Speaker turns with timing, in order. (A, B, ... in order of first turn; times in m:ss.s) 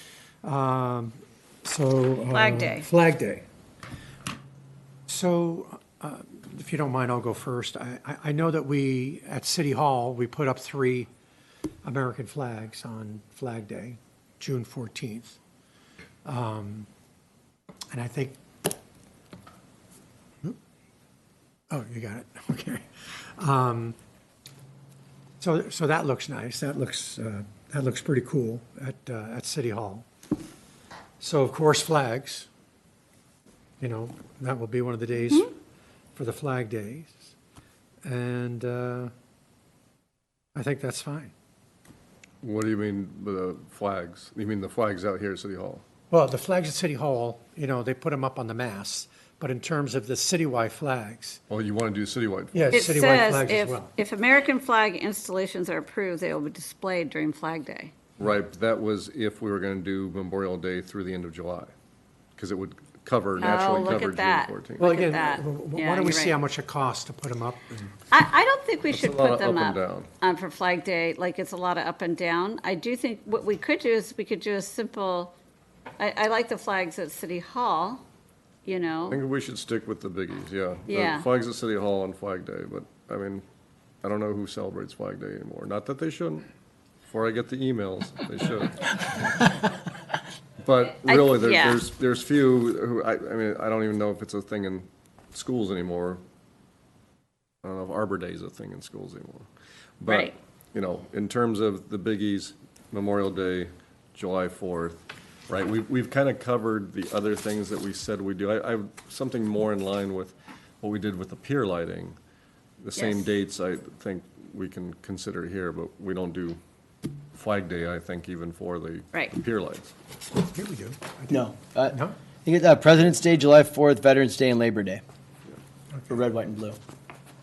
0:00.4-0:03.4 A
0:02.3-0:02.9 B
0:05.1-0:11.1 A
0:11.8-0:15.4 A
0:16.2-0:16.9 A
0:17.9-0:18.4 A
0:21.7-0:24.0 A
0:25.4-0:30.0 A
0:31.2-0:32.5 A
0:33.8-0:35.5 A
0:36.1-0:37.3 A
0:38.0-0:39.1 A
0:40.5-0:41.3 A
0:42.4-0:45.8 C
0:46.1-0:51.4 A
0:51.5-0:52.8 C
0:52.5-0:53.9 A
0:52.7-0:57.9 B
0:58.2-1:01.7 C
1:02.4-1:04.8 C
1:03.4-1:06.4 B
1:04.8-1:07.7 A
1:08.1-1:15.3 B
1:08.9-1:10.1 C
1:16.0-1:18.0 B
1:18.6-1:19.2 B
1:19.1-1:23.4 C
1:20.9-1:21.2 B
1:24.0-1:26.5 C
1:27.1-1:28.9 C
1:30.6-1:36.2 C
1:31.0-1:31.8 B
1:37.6-1:39.5 C
1:40.0-1:52.2 C
1:40.1-1:40.3 B
1:52.8-1:56.6 C
1:53.0-1:53.3 B
1:57.3-1:59.9 C
2:00.5-2:02.2 A
2:01.3-2:01.9 D
2:02.4-2:05.0 D
2:06.1-2:06.8 D